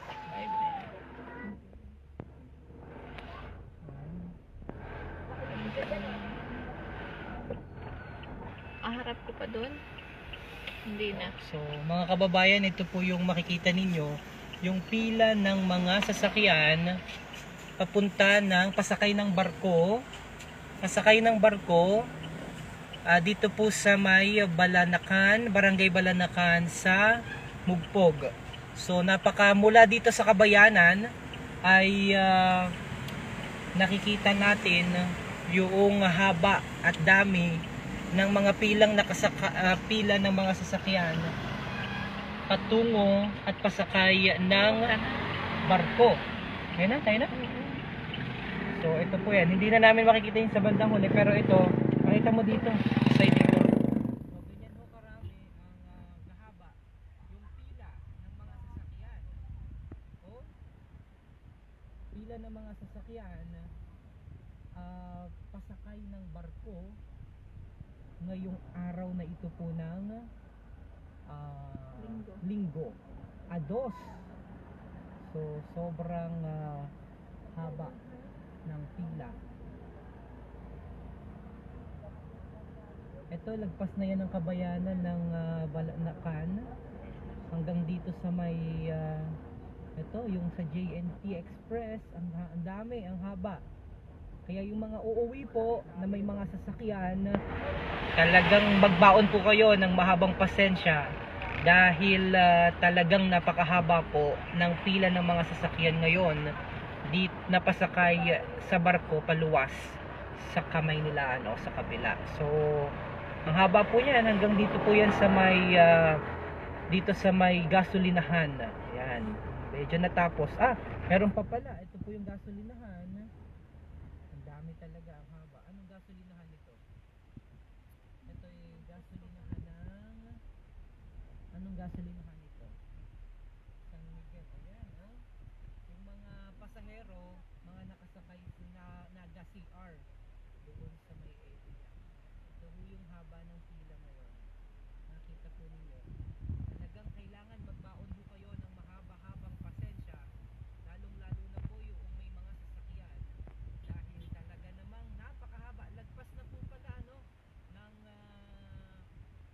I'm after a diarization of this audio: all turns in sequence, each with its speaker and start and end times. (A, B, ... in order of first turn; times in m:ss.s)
0:00.3-0:00.9 A
0:01.5-0:01.8 A
0:03.8-0:04.3 B
0:05.6-0:06.6 A
0:08.9-0:09.8 A
0:10.9-0:11.3 A
0:11.1-0:16.9 B
0:17.8-0:20.0 B
0:20.8-0:22.0 B
0:23.1-0:27.0 B
0:27.7-0:31.0 B
0:31.7-0:32.7 B
0:33.8-0:37.5 B
0:38.2-0:41.3 B
0:42.5-0:45.0 B
0:44.5-0:45.2 A
0:45.7-0:46.2 B
0:46.8-0:47.3 B
0:47.3-0:47.8 A
0:48.8-0:53.7 B
0:54.3-0:56.8 B
0:57.3-0:59.4 B
1:02.1-1:03.6 B
1:04.8-1:06.8 B
1:08.2-1:10.2 B
1:11.3-1:13.0 B
1:12.0-1:12.4 A
1:13.5-1:14.2 B
1:15.3-1:16.9 B
1:17.5-1:18.0 B
1:18.7-1:19.4 B
1:23.3-1:26.6 B
1:27.5-1:29.4 B
1:30.0-1:33.6 B
1:34.5-1:37.3 B
1:38.2-1:41.0 B
1:41.7-1:46.4 B
1:47.1-1:49.8 B
1:50.5-1:52.9 B
1:53.5-1:56.2 B
1:56.9-2:03.3 B
2:04.3-2:06.8 B
2:08.3-2:10.4 B
2:11.6-2:12.7 B
2:13.9-2:15.2 B
2:15.9-2:20.0 B
2:20.6-2:24.5 B
2:25.1-2:26.1 B
2:26.7-2:30.2 B
2:30.9-2:37.2 B
2:37.7-2:39.0 B